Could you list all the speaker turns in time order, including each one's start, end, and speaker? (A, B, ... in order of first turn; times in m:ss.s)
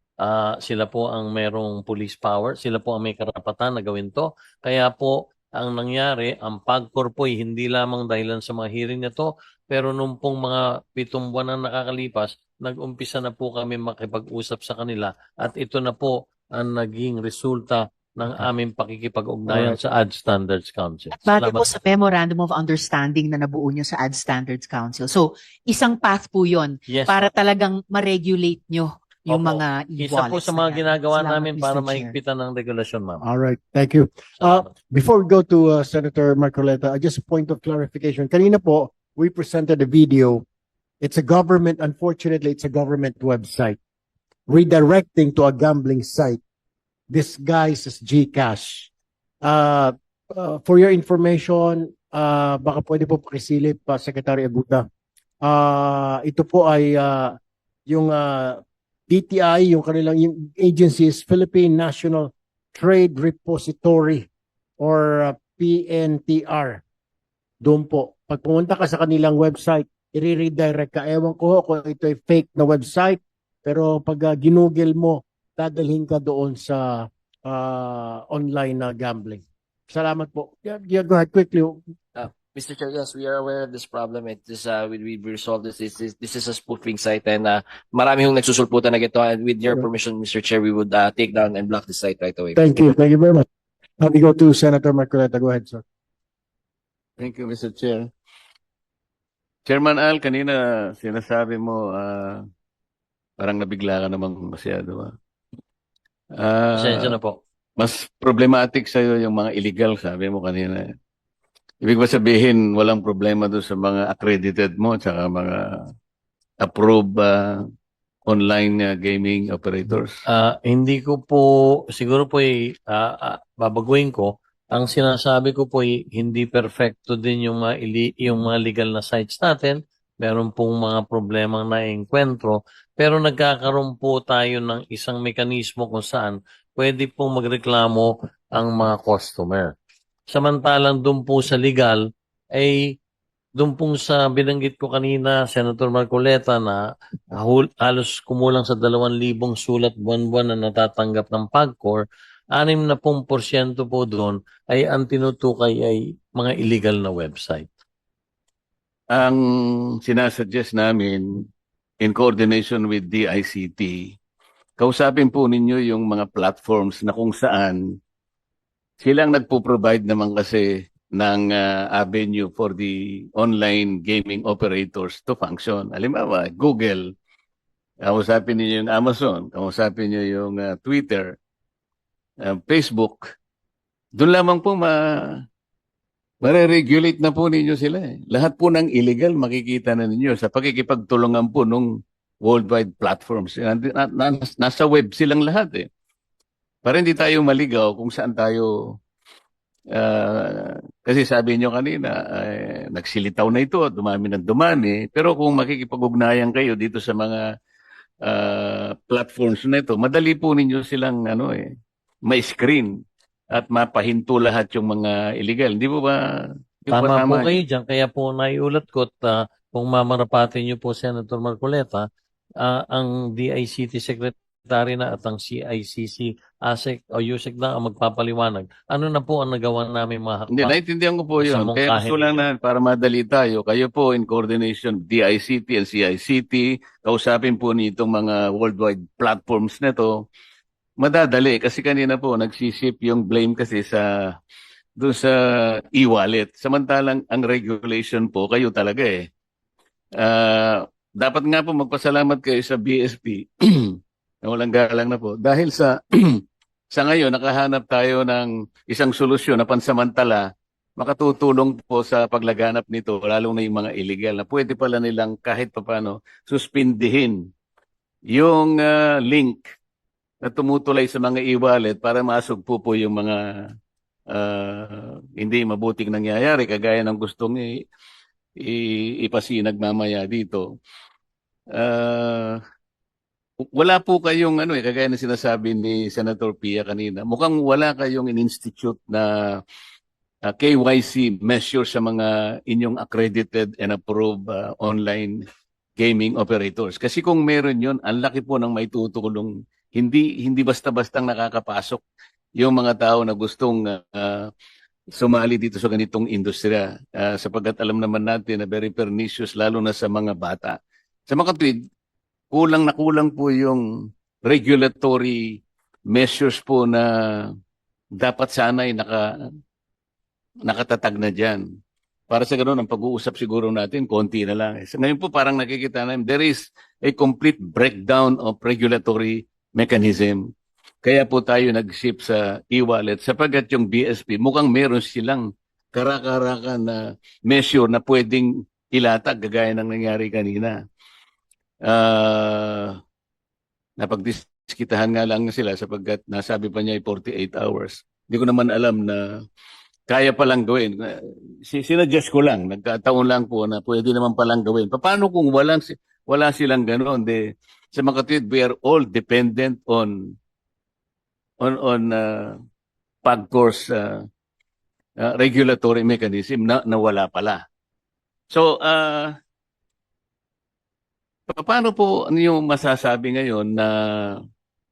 0:00.2-0:21.7 A
0:19.5-0:19.8 B
0:21.1-0:32.2 C
0:26.9-0:27.3 A
0:29.3-0:33.2 A
0:33.2-0:40.4 B
0:34.4-0:34.7 A
0:41.0-0:43.8 B
0:44.5-0:46.4 B
0:47.1-0:48.9 B
0:49.4-0:54.8 B
0:55.4-0:57.3 B
0:57.9-1:04.3 B
1:04.8-1:06.8 B
1:07.6-1:21.8 B
1:22.2-1:32.6 D
1:32.5-1:33.4 B
1:34.0-1:35.8 B
1:37.2-1:38.1 E
1:39.6-1:42.4 E
1:43.4-1:45.1 E
1:46.3-1:47.1 E
1:46.8-1:47.4 A
1:47.8-1:50.8 E
1:51.8-1:55.8 E
1:56.6-1:57.6 E
1:58.2-2:00.2 E
2:00.3-2:19.7 A
2:20.3-2:22.0 A
2:22.6-2:22.9 A
2:23.6-2:26.8 A
2:27.3-2:37.7 A
2:39.1-2:41.5 E
2:42.0-2:44.2 E
2:44.8-2:47.8 E
2:49.0-2:57.1 E
2:58.0-3:01.4 E
3:02.4-3:03.2 E
3:04.2-3:05.4 E
3:06.4-3:11.9 E
3:12.4-3:15.9 E
3:16.8-3:18.7 E
3:19.9-3:27.4 E
3:28.2-3:31.6 E
3:32.2-3:32.9 E
3:33.5-3:36.2 E
3:36.8-3:37.6 E
3:36.9-3:42.0 A
3:42.6-3:50.8 A
3:50.5-4:00.2 E
3:51.4-3:52.3 A
4:01.0-4:04.4 E
4:05.0-4:09.2 E
4:10.2-4:20.4 E
4:21.0-4:27.4 E
4:28.3-4:29.6 E
4:30.4-4:33.4 E
4:34.3-4:37.8 E
4:38.6-4:40.6 E
4:41.7-4:42.6 E
4:43.7-4:49.6 E
4:50.5-4:55.4 E
4:56.0-5:02.0 E
5:02.6-5:04.5 E
5:05.1-5:10.8 E
5:11.3-5:11.8 E
5:12.5-5:13.8 E
5:14.4-5:17.5 E
5:18.2-5:19.2 E
5:20.6-5:21.6 E
5:22.3-5:30.4 E
5:31.0-5:40.7 E
5:41.8-5:43.0 E
5:44.0-5:49.2 E
5:50.1-5:51.0 E
5:51.6-6:00.3 E
6:01.6-6:02.6 E
6:03.2-6:04.2 E
6:05.2-6:07.6 E
6:08.5-6:09.3 E
6:11.5-6:14.4 E